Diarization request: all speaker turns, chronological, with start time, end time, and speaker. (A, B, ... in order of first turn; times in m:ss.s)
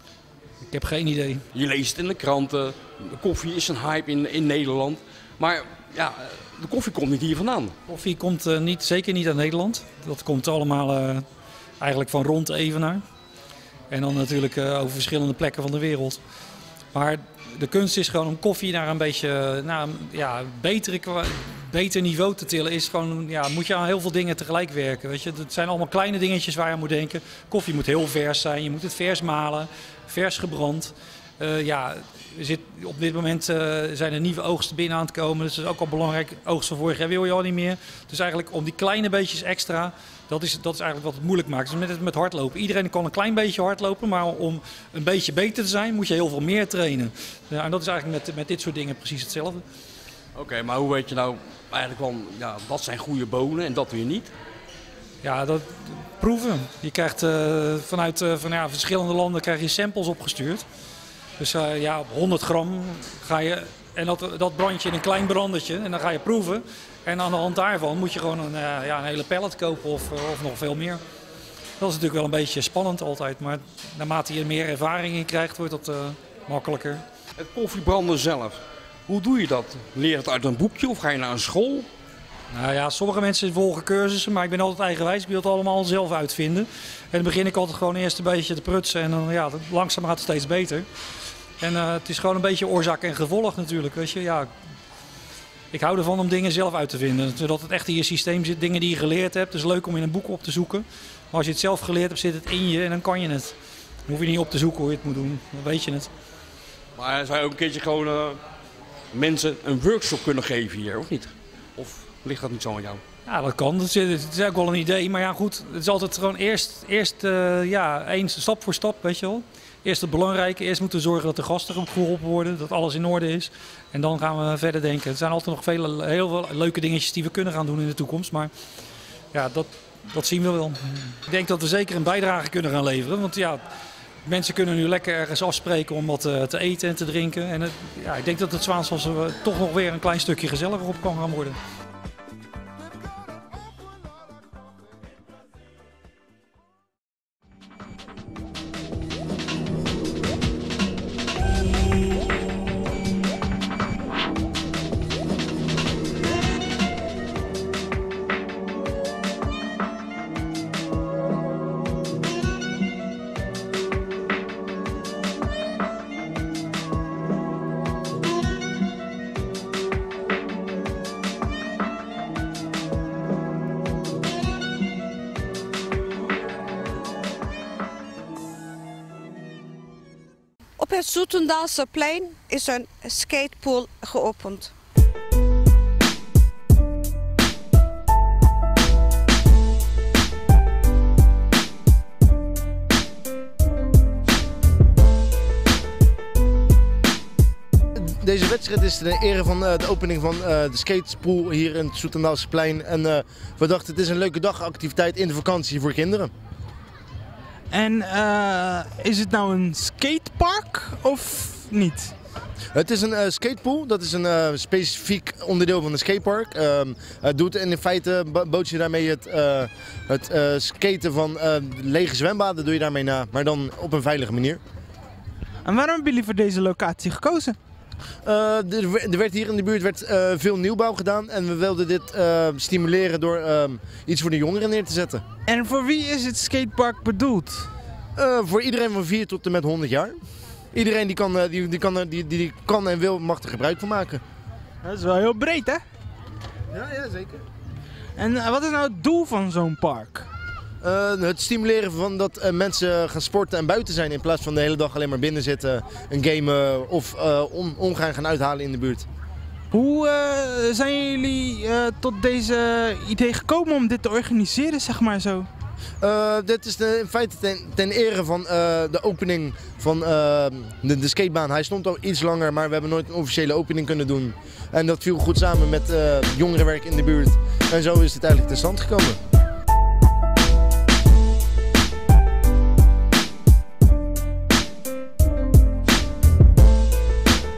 0:00.6-0:01.4 A
0:01.5-0:07.8 B
0:07.9-0:11.2 A
0:11.8-0:13.0 A
0:13.9-0:16.2 A
0:16.9-0:49.6 A
0:50.3-0:54.3 B
0:55.2-1:00.6 A
1:01.4-1:11.0 A
1:11.8-1:17.0 A
1:17.4-1:21.9 B
1:22.5-1:30.8 A
1:31.6-1:34.5 A
1:35.7-1:43.5 A
1:44.1-1:46.1 A
1:47.0-1:48.4 B
1:49.1-1:53.0 B
1:53.2-2:08.5 A
2:09.3-2:13.6 A
2:14.2-2:21.6 A
3:00.9-3:01.6 C
3:02.3-3:03.3 C
3:04.0-3:04.6 C
3:17.9-3:26.3 D
3:27.7-3:32.1 E
3:32.7-3:44.6 D
3:45.6-3:47.6 E
3:48.2-3:55.2 D
3:55.5-3:57.7 E
3:58.2-4:00.2 D
4:00.7-4:04.2 D
4:04.8-4:05.8 E
4:06.7-4:07.4 D
4:08.2-4:10.3 E
4:10.8-4:19.0 D
4:19.7-4:25.5 E
4:26.0-4:39.2 D